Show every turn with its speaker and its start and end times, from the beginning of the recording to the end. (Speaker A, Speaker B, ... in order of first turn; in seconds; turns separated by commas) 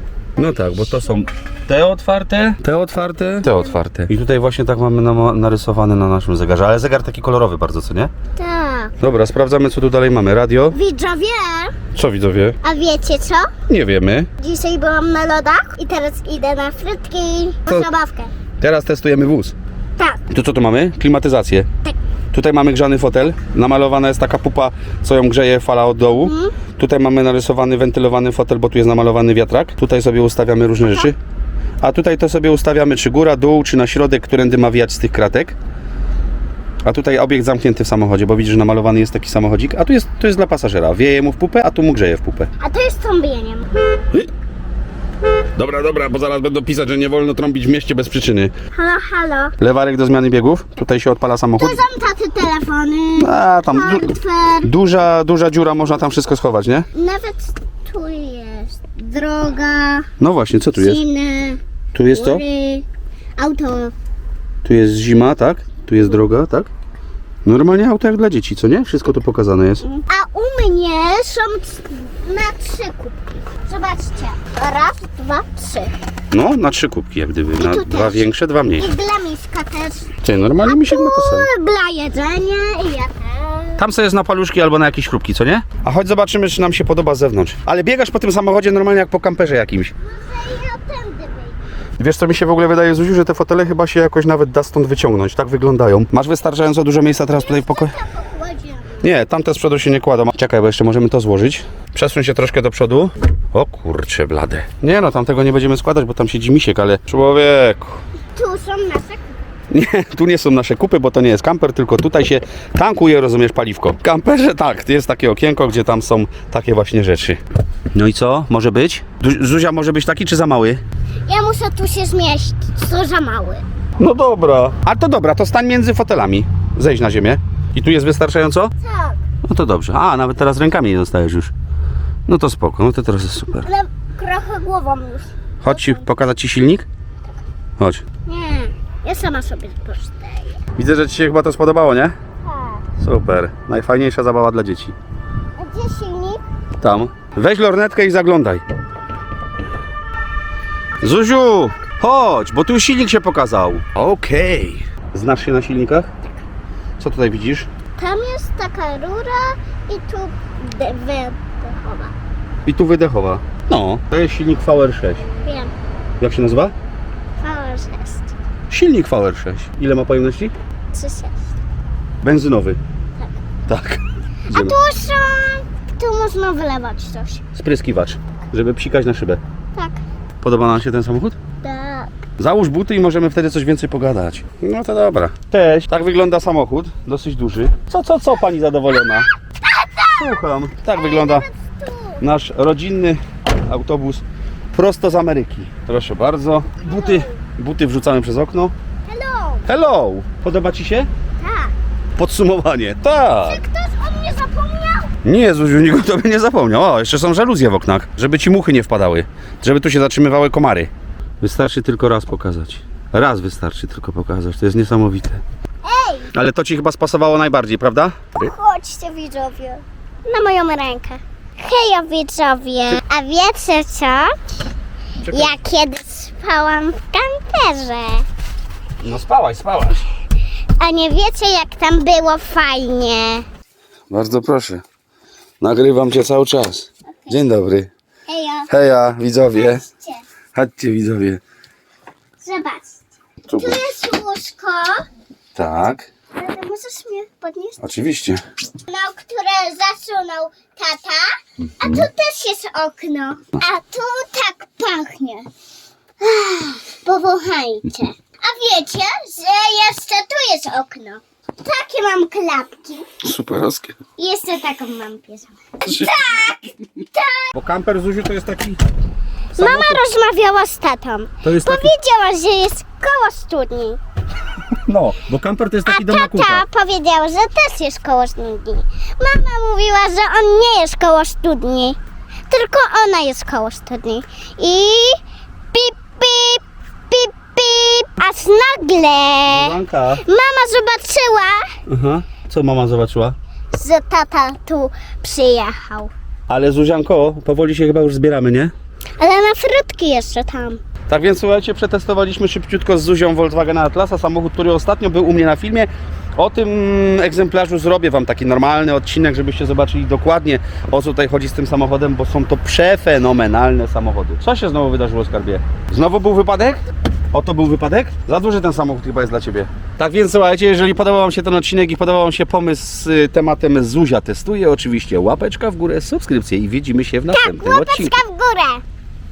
Speaker A: 0.4-8.1, Speaker B: 0.4-1.2, Speaker B: 3.4-3.8, Speaker B: 8.3-8.9, Speaker A: 9.0-10.8, Speaker B: 10.7-11.8, Speaker A: 11.9-12.6, Speaker B: 12.6-13.5, Speaker A: 13.7-14.3, Speaker B: 14.4-18.3, Speaker A: 18.6-19.5, Speaker A: 20.3-21.7, Speaker A: 22.3-31.1, Speaker B: 26.1-26.6, Speaker A: 31.8-35.5, Speaker A: 36.8-42.5, Speaker B: 42.6-43.7, Speaker A: 45.5-48.5, Speaker B: 48.7-49.5, Speaker A: 49.6-51.8, Speaker B: 51.6-54.7, Speaker A: 53.2-56.9, Speaker B: 56.9-60.1, Speaker A: 60.2-61.0, Speaker B: 60.7-61.6, Speaker A: 61.9-62.4, Speaker B: 62.1-62.8, Speaker B: 63.4-63.9, Speaker A: 64.6-66.7, Speaker A: 67.4-69.8, Speaker B: 69.8-75.9, Speaker A: 76.3-78.9, Speaker B: 77.6-83.8, Speaker A: 80.2-81.5, Speaker A: 83.8-89.9, Speaker B: 90.0-91.6, Speaker A: 92.0-97.9, Speaker B: 97.3-99.1, Speaker A: 99.0-108.0, Speaker B: 108.3-109.4, Speaker A: 109.7-117.4, Speaker A: 117.9-120.8, Speaker B: 121.2-123.6, Speaker A: 124.0-128.7, Speaker B: 128.8-129.2, Speaker A: 129.4-131.5, Speaker A: 132.3-133.7, Speaker B: 133.6-136.1, Speaker A: 135.6-136.8, Speaker B: 138.2-140.6, Speaker A: 140.8-142.1, Speaker B: 142.4-142.8, Speaker A: 143.0-144.9, Speaker B: 145.6-146.4, Speaker A: 146.8-148.6, Speaker A: 151.0-156.1, Speaker A: 157.0-157.7, Speaker B: 158.0-162.1, Speaker A: 162.6-165.2, Speaker B: 165.4-165.7, Speaker A: 166.2-166.7, Speaker B: 167.4-168.3, Speaker A: 168.7-170.5, Speaker B: 170.9-171.5, Speaker A: 172.2-172.8, Speaker A: 173.7-174.8, Speaker B: 174.5-177.4, Speaker A: 177.5-179.4, Speaker B: 179.7-180.0, Speaker A: 180.4-181.4, Speaker B: 181.6-182.1, Speaker A: 182.4-189.3, Speaker B: 188.9-190.4, Speaker A: 190.2-191.4, Speaker B: 190.9-192.2, Speaker A: 192.2-198.7, Speaker B: 196.8-197.4, Speaker B: 199.1-199.7, Speaker A: 199.7-201.1, Speaker B: 201.4-201.7, Speaker A: 202.2-203.6, Speaker B: 203.4-205.1, Speaker A: 205.2-210.9, Speaker A: 211.4-215.4, Speaker B: 215.8-216.3, Speaker A: 216.3-218.3, Speaker B: 218.3-224.3, Speaker A: 225.2-225.6, Speaker B: 225.3-228.2, Speaker A: 229.0-230.0, Speaker B: 230.8-233.4, Speaker A: 234.1-234.8, Speaker A: 235.6-237.9, Speaker B: 238.3-238.7, Speaker A: 238.7-239.8, Speaker B: 239.6-240.2, Speaker A: 240.5-241.4, Speaker B: 242.4-243.0, Speaker A: 243.5-243.8, Speaker B: 243.5-245.1, Speaker A: 245.5-246.1, Speaker B: 246.3-247.8, Speaker A: 247.8-248.4, Speaker B: 248.9-255.5, Speaker A: 251.8-252.1, Speaker B: 256.2-263.1, Speaker A: 263.2-264.0, Speaker B: 264.2-267.5, Speaker A: 265.8-266.2, Speaker A: 267.5-268.8, Speaker A: 269.6-270.0, Speaker B: 269.6-274.0, Speaker A: 271.4-271.9, Speaker A: 274.9-276.6, Speaker B: 275.9-282.0, Speaker B: 282.5-285.2, Speaker B: 285.7-291.7, Speaker A: 289.5-290.2, Speaker A: 291.9-293.4, Speaker B: 293.7-296.1, Speaker A: 296.5-298.7, Speaker B: 299.2-300.8, Speaker A: 301.1-328.2, Speaker B: 327.3-328.8